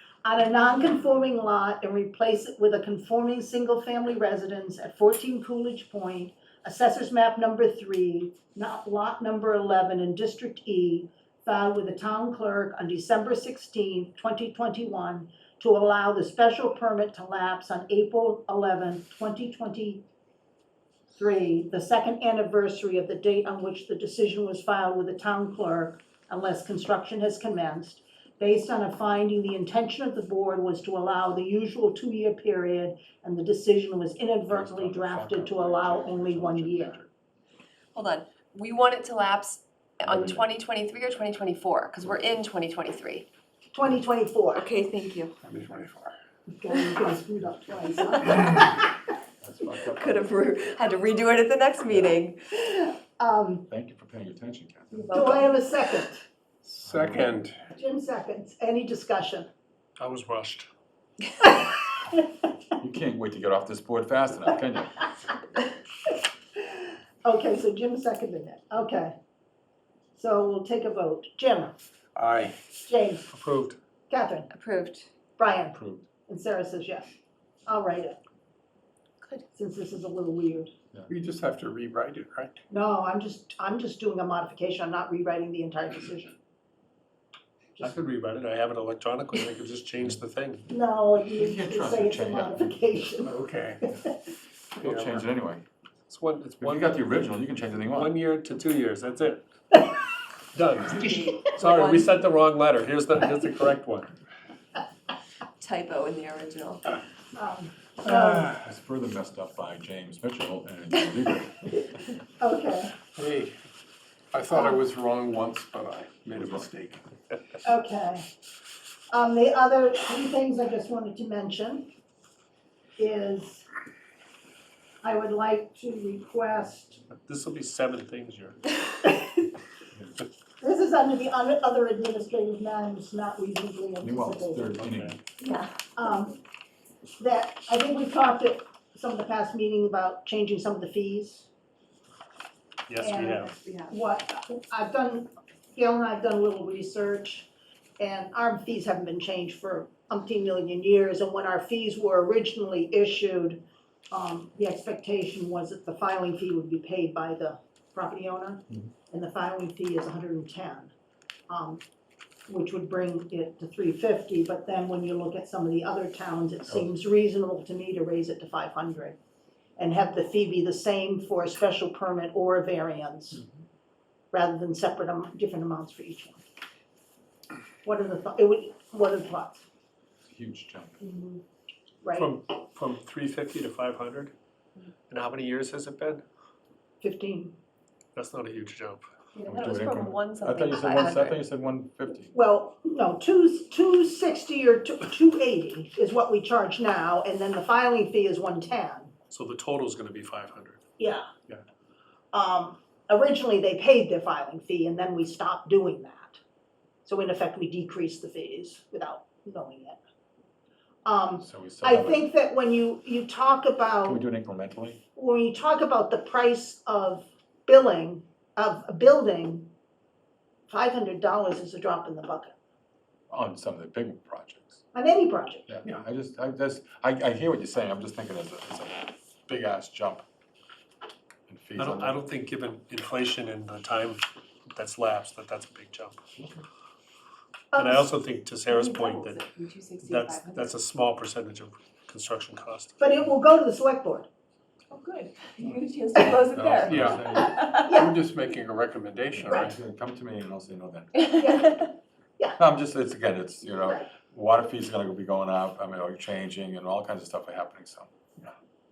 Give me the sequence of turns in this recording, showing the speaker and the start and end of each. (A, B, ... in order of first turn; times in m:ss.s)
0:00.2-0:20.0 A
0:21.2-0:37.0 A
0:34.5-0:37.1 B
0:37.9-0:43.3 C
0:40.0-0:40.5 B
0:43.7-0:44.6 A
0:44.5-0:45.4 C
0:45.4-0:46.1 D
0:46.5-0:48.9 A
0:48.2-0:48.5 C
0:49.4-0:50.3 B
0:49.8-0:52.4 C
0:52.6-0:53.7 A
0:53.7-0:55.1 B
0:54.9-0:55.5 C
0:55.1-0:56.2 A
0:56.6-0:57.6 D
0:56.8-0:57.3 B
0:57.7-0:59.5 A
1:00.0-1:00.7 E
1:01.4-1:02.3 A
1:02.8-1:05.1 B
1:06.1-1:09.2 A
1:10.2-1:11.8 A
1:12.2-1:12.6 D
1:12.8-1:13.3 A
1:13.3-1:13.8 E
1:14.1-1:14.5 A
1:14.5-1:15.1 C
1:15.4-1:17.1 A
1:15.7-1:16.1 B
1:17.7-1:18.2 A
1:19.5-1:20.7 A
1:21.1-1:22.6 D
1:22.7-1:26.3 A
1:27.8-1:30.7 E
1:30.7-1:34.2 A
1:31.3-1:32.9 B
1:33.2-1:33.8 D
1:34.8-1:35.6 B
1:34.8-1:35.2 E
1:36.1-1:37.1 E
1:36.6-1:38.2 B
1:37.9-1:39.4 E
1:40.5-1:44.1 E
1:40.9-1:42.1 C
1:45.6-1:47.0 C
1:47.4-1:48.5 A
1:48.5-1:51.9 B
1:52.4-1:53.0 A
1:53.2-1:53.6 D
1:54.3-1:57.0 D
1:57.6-1:58.3 A
1:59.1-2:01.9 A
2:03.0-2:03.7 A
2:05.0-2:07.0 A
2:07.2-2:08.6 E
2:09.0-2:09.5 A
2:10.6-2:14.8 A
2:14.0-2:15.2 B
2:14.8-2:15.2 E
2:15.4-2:15.8 C
2:16.0-2:16.4 A
2:17.2-2:21.5 A
2:22.9-2:23.6 E
2:23.0-2:40.9 A
2:23.6-2:23.9 C
2:41.5-2:41.8 A
2:42.5-2:49.2 A
2:49.8-2:53.4 A
2:54.3-2:56.4 A
2:57.8-2:59.6 A
3:00.3-3:01.0 B
3:02.0-3:02.4 A
3:02.2-3:04.3 E
3:05.1-3:06.2 E
3:07.0-3:07.6 A
3:08.2-3:09.0 E
3:09.4-3:11.4 C
3:09.5-3:12.4 B
3:12.3-3:19.1 A
3:19.3-3:20.8 E
3:21.0-3:21.3 A
3:22.3-3:26.4 A
3:27.0-3:30.0 A
3:31.0-3:34.2 A
3:31.4-3:32.3 B
3:34.0-3:35.0 B
3:35.2-3:39.7 A
3:40.7-3:42.5 A
3:43.3-3:44.8 B
3:44.9-3:45.7 A
3:45.7-3:50.2 B
3:51.5-3:52.2 B
3:51.8-3:56.2 E
3:56.4-3:56.6 B
3:57.7-3:58.1 A
3:57.8-3:59.4 E
3:58.6-4:00.8 C
4:00.0-4:02.9 E
4:03.0-4:04.3 A
4:04.9-4:08.1 C
4:06.5-4:09.8 D
4:06.6-4:07.6 B
4:07.8-4:08.1 A
4:09.3-4:11.2 B
4:11.2-4:11.9 C
4:11.4-4:11.9 A
4:12.6-4:18.5 B
4:13.8-4:14.1 A